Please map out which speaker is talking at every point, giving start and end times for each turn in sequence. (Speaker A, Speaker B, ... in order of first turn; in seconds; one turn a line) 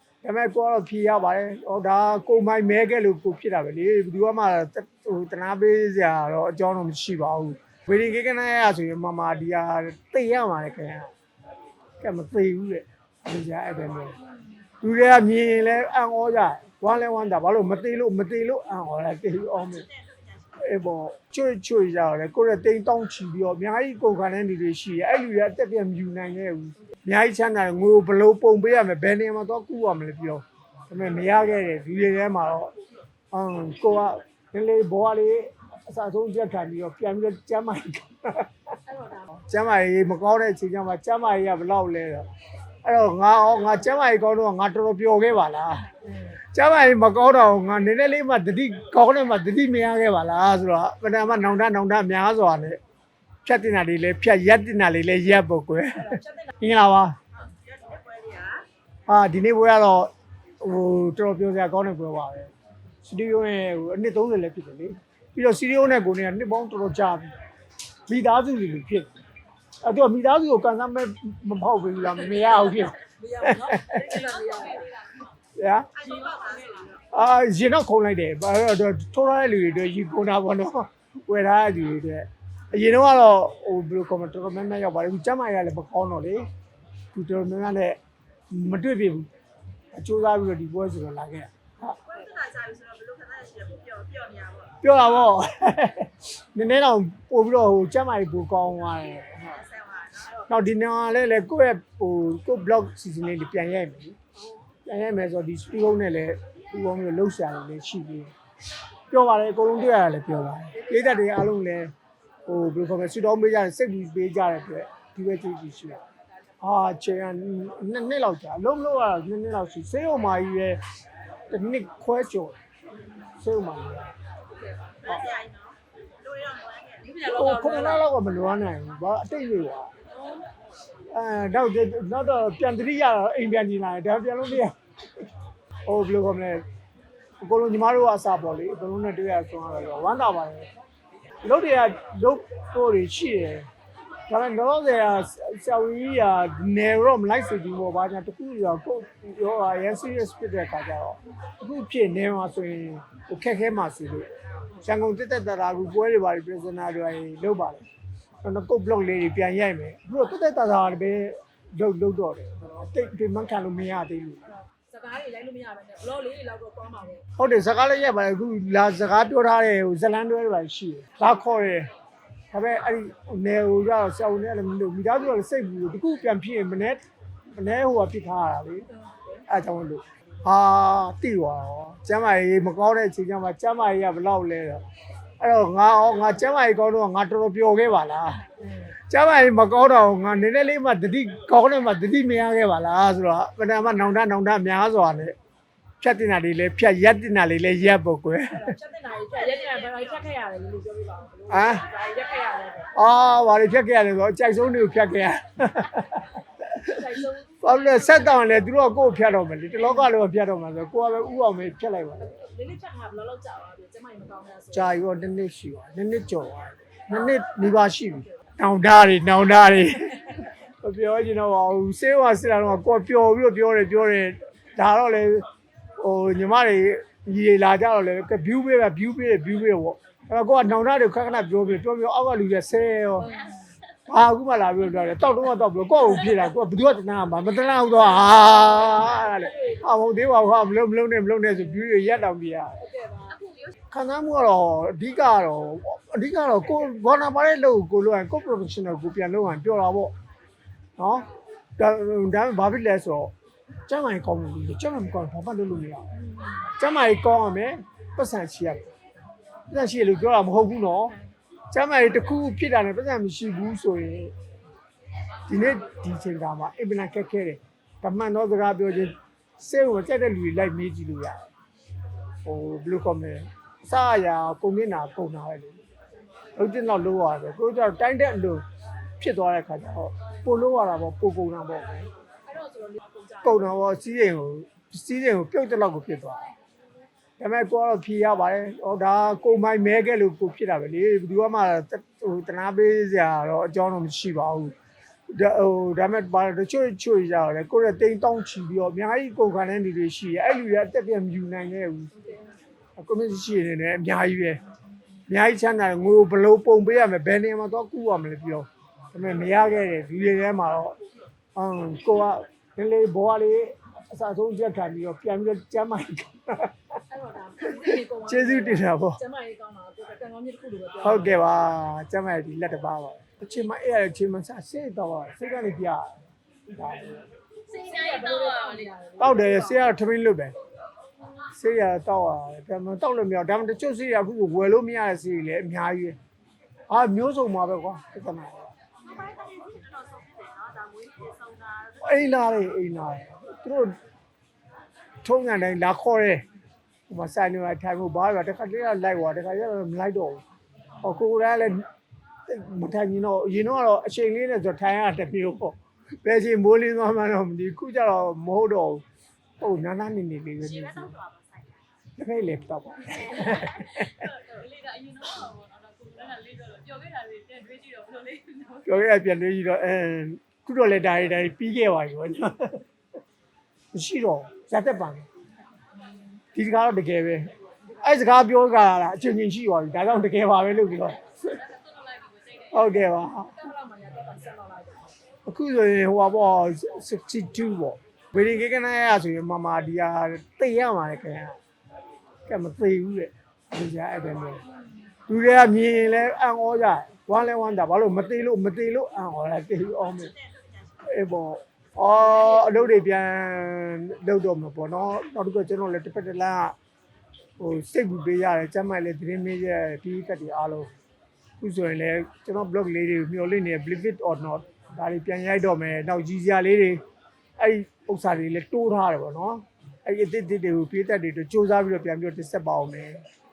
Speaker A: 0.2-11.1
Speaker A: 12.0-14.2
Speaker A: 14.8-19.9
Speaker B: 19.7-20.6
Speaker A: 20.6-32.7
Speaker A: 33.3-38.5
Speaker C: 38.9-39.3
Speaker A: 39.3-42.3
Speaker A: 42.8-46.0
Speaker A: 46.5-52.8
Speaker A: 53.5-57.2
Speaker C: 56.0-56.6
Speaker B: 57.4-58.7
Speaker A: 59.1-62.5
Speaker A: 63.0-67.3
Speaker A: 68.1-69.1
Speaker A: 69.8-74.1
Speaker C: 73.0-75.1
Speaker B: 74.4-74.8
Speaker A: 75.6-75.9
Speaker B: 76.0-77.0
Speaker C: 76.0-76.7
Speaker A: 77.1-86.5
Speaker A: 87.1-88.0
Speaker A: 88.5-89.3
Speaker A: 89.9-92.0
Speaker B: 92.1-94.8
Speaker D: 92.5-93.1
Speaker D: 93.8-94.2
Speaker A: 94.8-99.6
Speaker B: 99.4-100.4
Speaker A: 100.5-104.2
Speaker A: 104.9-108.3
Speaker A: 109.1-111.9
Speaker A: 112.5-116.0
Speaker A: 116.6-120.8
Speaker A: 121.5-122.6
Speaker A: 123.4-124.1
Speaker C: 124.6-125.2
Speaker B: 125.0-127.2
Speaker C: 127.0-128.1
Speaker A: 127.2-129.9
Speaker A: 131.1-134.8
Speaker A: 135.9-136.6
Speaker A: 137.4-140.7
Speaker A: 141.4-143.7
Speaker A: 144.3-154.3
Speaker A: 154.8-157.9
Speaker A: 158.4-164.5
Speaker C: 164.6-167.3
Speaker A: 167.4-171.9
Speaker A: 172.5-177.0
Speaker A: 177.6-178.9
Speaker C: 178.9-179.4
Speaker A: 179.5-184.8
Speaker A: 185.4-188.4
Speaker C: 188.6-188.9
Speaker A: 189.1-195.3
Speaker A: 196.0-198.8
Speaker C: 198.5-203.0
Speaker A: 201.5-201.9
Speaker A: 202.9-206.9
Speaker C: 206.8-208.5
Speaker A: 207.6-212.4
Speaker C: 212.2-215.0
Speaker A: 214.7-225.5
Speaker C: 217.1-217.7
Speaker C: 218.2-218.5
Speaker A: 226.0-233.4
Speaker C: 233.2-233.7
Speaker A: 234.1-242.8
Speaker C: 238.3-240.0
Speaker C: 242.8-243.4
Speaker A: 243.9-250.1
Speaker A: 251.0-253.3
Speaker A: 253.9-256.1
Speaker C: 256.1-256.7
Speaker A: 256.8-258.9
Speaker A: 259.7-261.2
Speaker A: 261.7-264.3
Speaker A: 265.5-271.5
Speaker A: 272.4-275.8
Speaker A: 276.6-278.6
Speaker A: 279.2-282.1
Speaker C: 282.5-283.7
Speaker A: 283.4-286.5
Speaker A: 287.4-294.8
Speaker A: 295.3-302.1
Speaker C: 302.1-302.6
Speaker A: 303.0-304.6
Speaker A: 305.3-311.0
Speaker A: 311.6-316.8
Speaker C: 317.1-321.4
Speaker A: 317.9-319.2
Speaker A: 321.0-327.3
Speaker C: 327.7-329.9
Speaker D: 328.0-328.8
Speaker A: 329.2-330.6
Speaker A: 331.5-336.2
Speaker A: 336.9-338.7
Speaker B: 339.1-342.4
Speaker A: 342.0-344.0
Speaker A: 345.2-346.4
Speaker A: 347.1-350.4
Speaker A: 351.0-351.9
Speaker A: 352.5-359.0
Speaker A: 359.6-361.1
Speaker B: 360.6-361.8
Speaker A: 362.2-364.3
Speaker D: 363.8-368.9
Speaker A: 368.9-372.8
Speaker A: 373.9-375.3
Speaker A: 376.6-381.6
Speaker D: 381.7-382.7
Speaker B: 381.9-382.7
Speaker A: 382.7-383.5
Speaker C: 383.1-385.2
Speaker A: 385.5-391.6
Speaker A: 392.5-394.6
Speaker A: 395.3-400.3
Speaker B: 400.1-401.0
Speaker A: 401.1-406.8
Speaker A: 407.6-410.9
Speaker A: 411.6-417.0
Speaker A: 417.6-423.2